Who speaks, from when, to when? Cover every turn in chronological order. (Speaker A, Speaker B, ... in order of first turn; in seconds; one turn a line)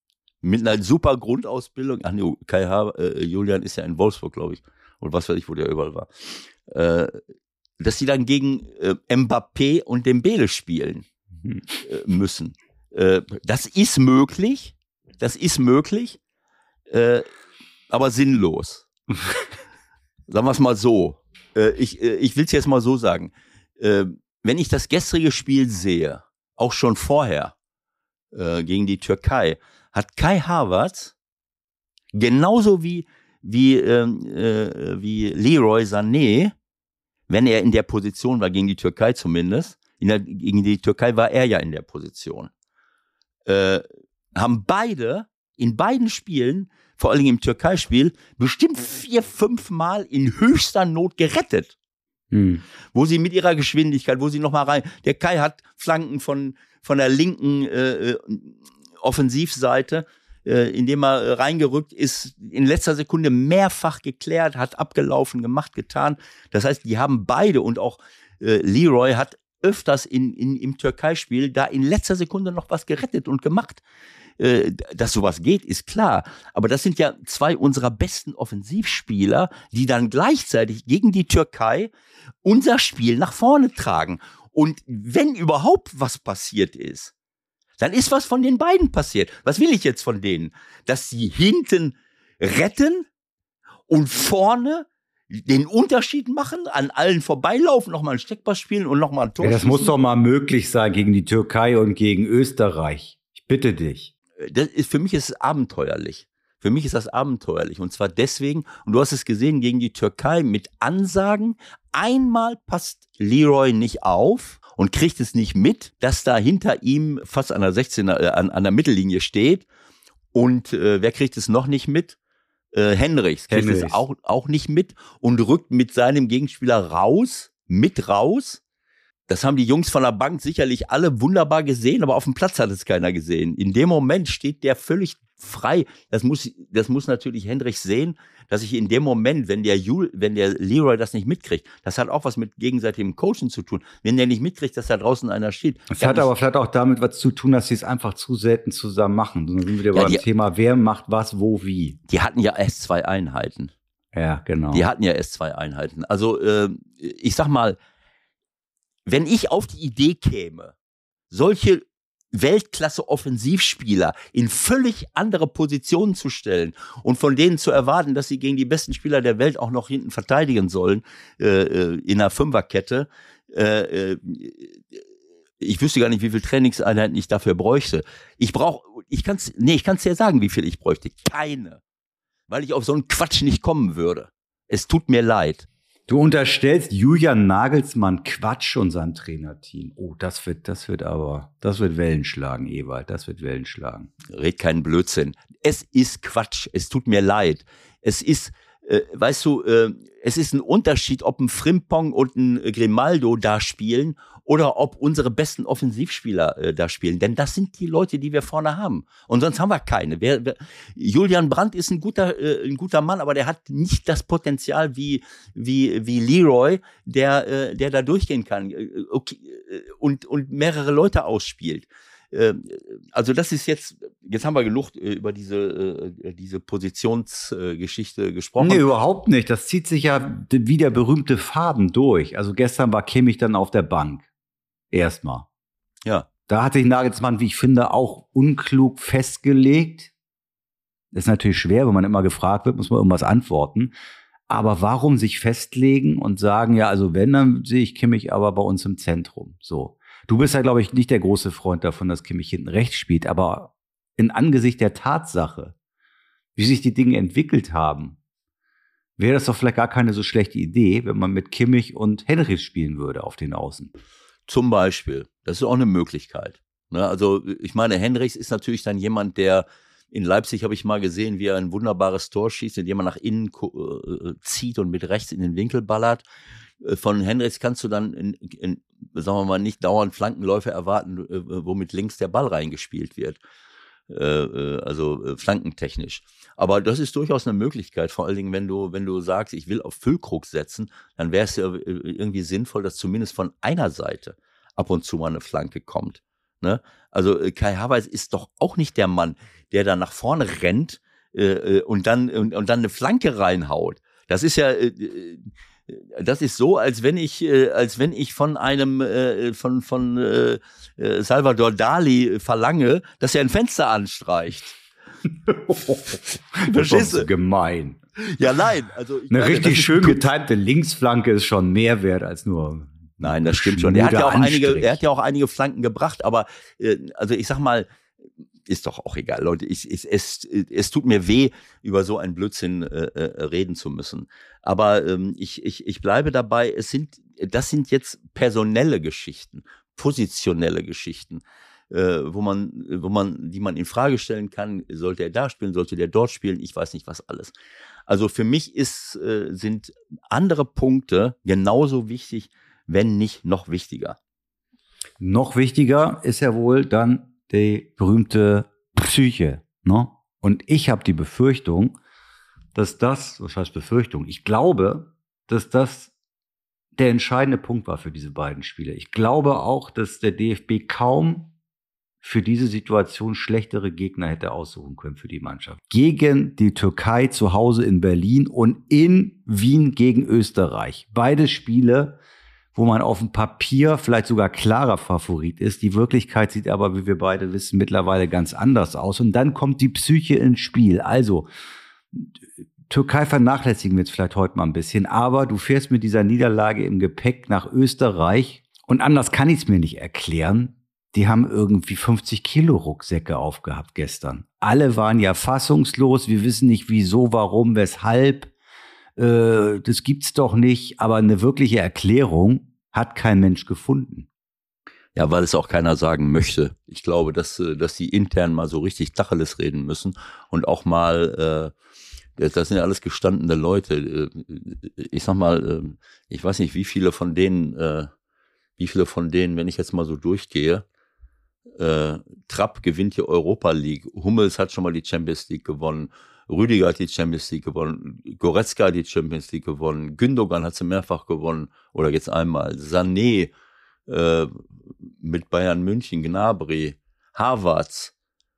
Speaker A: 0.4-7.2
Speaker A: 7.8-11.1
Speaker A: 11.8-16.2
Speaker A: 16.9-17.3
Speaker A: 17.9-18.9
Speaker A: 20.3-27.5
Speaker A: 28.3-31.1
Speaker A: 32.1-36.5
Speaker A: 37.3-42.5
Speaker A: 43.5-43.8
Speaker A: 44.4-51.7
Speaker B: 52.3-52.6
Speaker A: 52.9-73.8
Speaker A: 74.4-81.9
Speaker A: 82.4-87.1
Speaker A: 87.8-93.1
Speaker A: 93.9-99.9
Speaker B: 99.4-104.1
Speaker A: 104.4-119.7
Speaker A: 120.3-122.2
Speaker A: 122.7-128.6
Speaker B: 123.5-124.0
Speaker A: 129.3-146.3
Speaker B: 145.9-152.0
Speaker A: 149.9-150.2
Speaker A: 152.1-153.7
Speaker B: 154.1-154.8
Speaker A: 154.7-157.8
Speaker A: 159.1-160.7
Speaker A: 161.3-175.0
Speaker A: 175.6-181.8
Speaker A: 182.5-185.7
Speaker B: 186.1-194.1
Speaker A: 194.3-228.8
Speaker B: 228.6-234.2
Speaker B: 234.9-235.5
Speaker B: 236.5-240.1
Speaker B: 241.1-243.9
Speaker B: 244.5-255.7
Speaker B: 256.6-258.2
Speaker B: 259.2-263.9
Speaker A: 264.5-276.2
Speaker A: 276.8-283.4
Speaker A: 284.1-314.8
Speaker B: 315.5-318.0
Speaker A: 316.7-317.3
Speaker A: 318.2-320.2
Speaker B: 319.3-325.0
Speaker A: 323.2-327.9
Speaker A: 328.7-347.5
Speaker A: 348.1-354.2
Speaker B: 355.2-362.0
Speaker B: 362.7-366.1
Speaker B: 366.9-371.5
Speaker B: 372.2-382.2
Speaker B: 382.7-391.5
Speaker B: 392.1-408.5
Speaker B: 409.2-414.3
Speaker A: 415.1-421.7
Speaker A: 422.4-428.1
Speaker A: 428.8-430.8
Speaker A: 431.8-443.5
Speaker A: 444.1-444.6
Speaker A: 445.2-448.1